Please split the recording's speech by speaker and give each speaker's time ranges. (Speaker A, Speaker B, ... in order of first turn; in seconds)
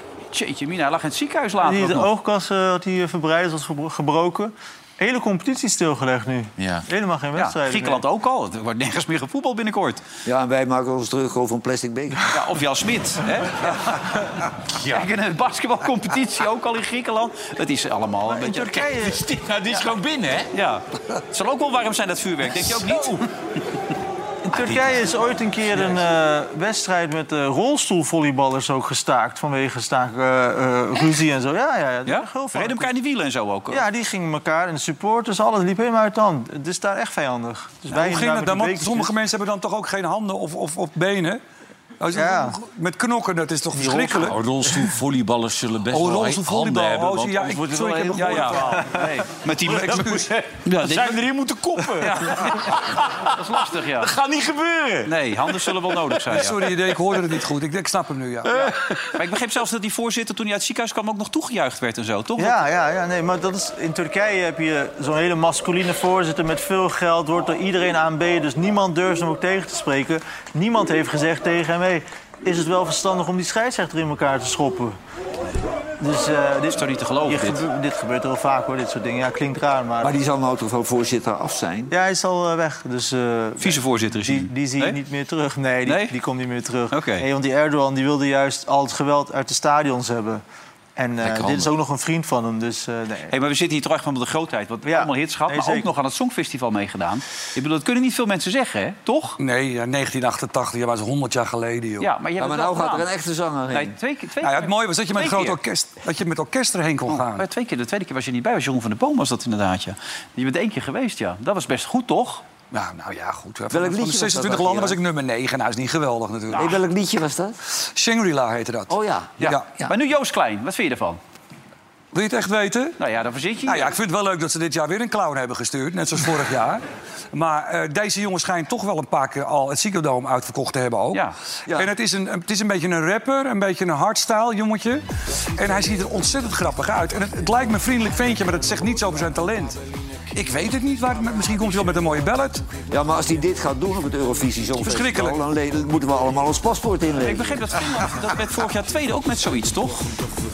Speaker A: 0.3-2.1, 7.3-10.0, 12.3-14.2, 14.9-18.8, 20.5-23.3, 32.0-33.8, 48.1-51.2, 52.0-52.7, 53.4-54.1, 55.0-56.6, 58.6-62.6, 76.7-77.6, 83.6-85.0, 85.8-86.1, 86.9-87.2, 93.3-99.4, 102.0-103.1, 103.7-105.6, 107.1-112.4, 119.4-121.2, 123.0-123.9, 147.2-150.2
Speaker B: 1.6-8.0, 18.3-19.2, 24.4-32.9, 33.7-39.1, 42.1-42.6, 43.8-44.3, 48.8-49.1, 62.4-75.0, 76.0-80.1, 81.9-90.4, 91.0-93.3, 94.8-95.9
Speaker C: 6.6-6.9, 14.7-15.1, 18.7-20.5, 22.5-23.2, 24.5-24.9, 44.2-48.6, 50.8-55.9, 91.2-91.7
Speaker D: 10.2-12.3, 80.0-81.9, 102.4-103.9, 113.7-115.0, 116.5-117.6, 118.9-119.9, 142.9-147.8
Speaker E: 37.9-41.4, 42.0-44.4, 45.9-48.9, 49.6-50.3, 56.3-58.7, 99.4-102.1, 104.4-107.5, 112.7-116.8, 117.8-119.7, 122.1-123.0, 123.6-126.8, 127.3-142.7, 144.8-145.4